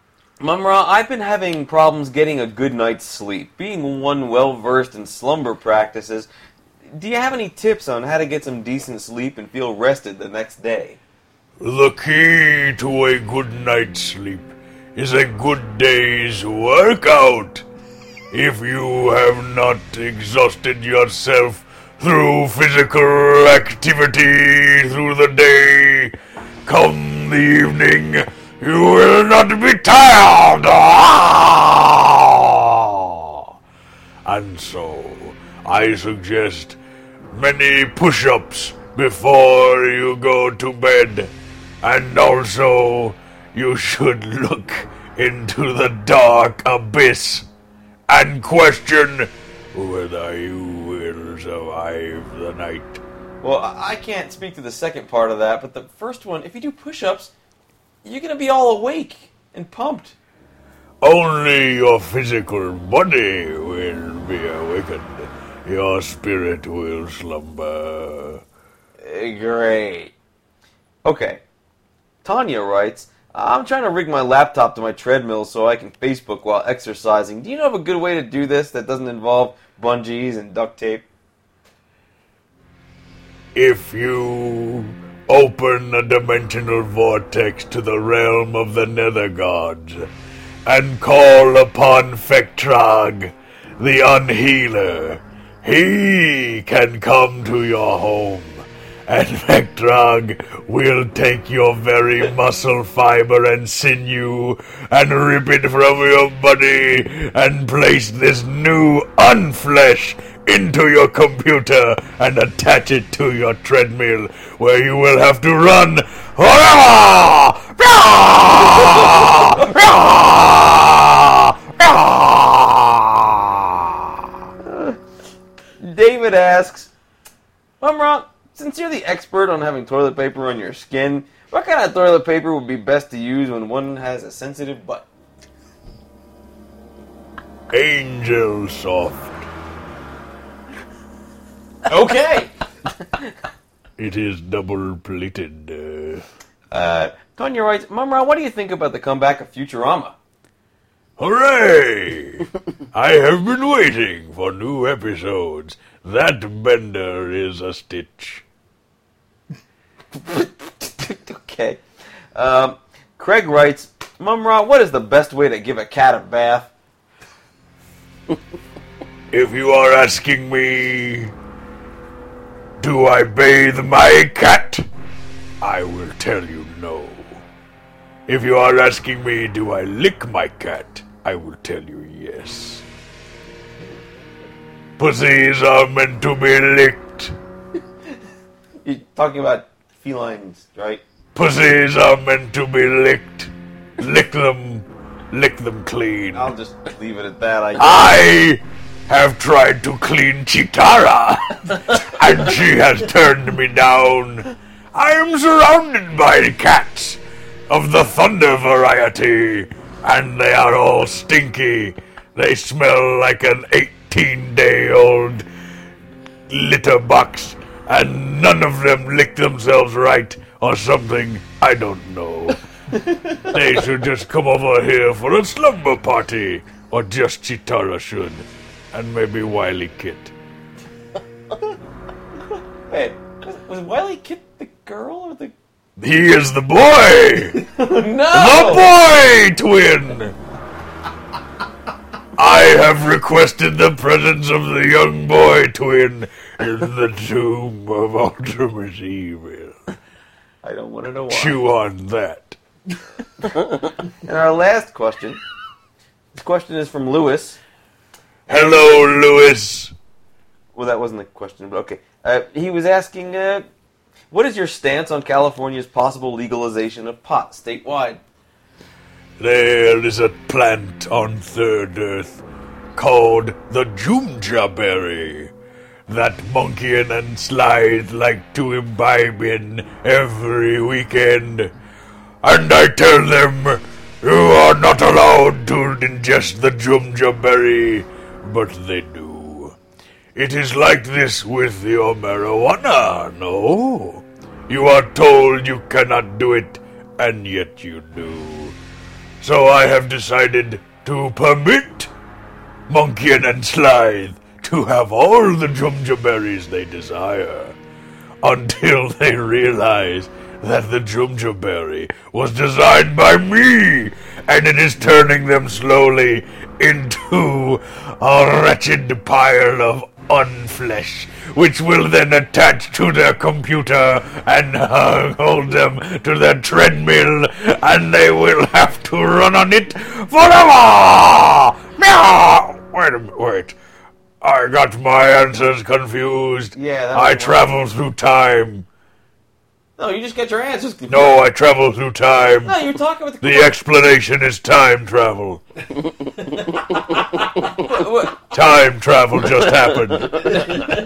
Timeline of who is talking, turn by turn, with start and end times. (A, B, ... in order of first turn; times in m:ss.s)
0:00.4-0:06.3 A
0:06.9-0:11.0 A
0:11.6-0:17.6 B
0:18.3-0:26.1 B
0:26.6-0:33.5 B
0:34.2-0:36.8 B
0:37.3-0:47.5 B
0:48.1-0:53.0 B
0:53.4-0:57.3 A
0:58.0-1:00.1 A
1:01.0-1:08.4 B
1:09.0-1:10.1 A
1:11.0-1:11.4 A
1:12.2-1:21.0 A
1:23.5-1:30.1 B
1:30.6-2:04.0 B
1:59.2-1:59.5 A
2:05.8-2:06.9 A
2:07.8-2:15.1 A
2:17.7-2:19.4 B
2:21.8-2:22.5 A
2:24.0-2:26.2 B
2:26.7-2:30.1 A
2:31.2-2:38.4 B
2:40.2-2:41.8 A
2:42.3-2:46.7 A
2:49.3-2:51.3 B
2:52.8-2:54.8 B
2:55.6-2:57.4 B
2:58.3-3:02.8 B
3:05.0-3:07.3 B
3:08.8-3:11.0 A
3:11.3-3:16.5 B
3:16.3-3:18.3 A
3:17.8-3:35.4 B
3:36.5-3:42.6 B
3:42.9-3:43.6 A
3:43.4-3:50.3 B
3:52.9-3:55.5 A
3:56.0-3:57.6 B
3:57.6-3:58.9 A
3:58.3-4:00.3 B
4:02.4-4:09.9 B
4:10.6-4:11.6 A
4:11.3-4:12.6 B
4:14.2-4:15.4 A
4:16.3-4:17.6 A
4:18.5-4:19.2 A
4:18.5-4:19.9 B
4:20.7-4:23.7 A
4:24.3-4:28.2 A
4:29.4-4:32.4 B
4:32.9-4:35.5 B
4:36.1-4:41.7 B
4:42.4-4:49.7 B
4:50.3-4:58.7 B
4:59.4-5:02.1 B
5:02.9-5:07.8 B
5:08.4-5:33.8 B
5:34.4-5:38.8 B
5:36.7-5:37.8 A
5:40.0-5:41.4 A
5:41.1-5:45.6 B
5:42.6-5:43.7 A
5:47.6-5:48.5 A
5:48.5-5:50.6 B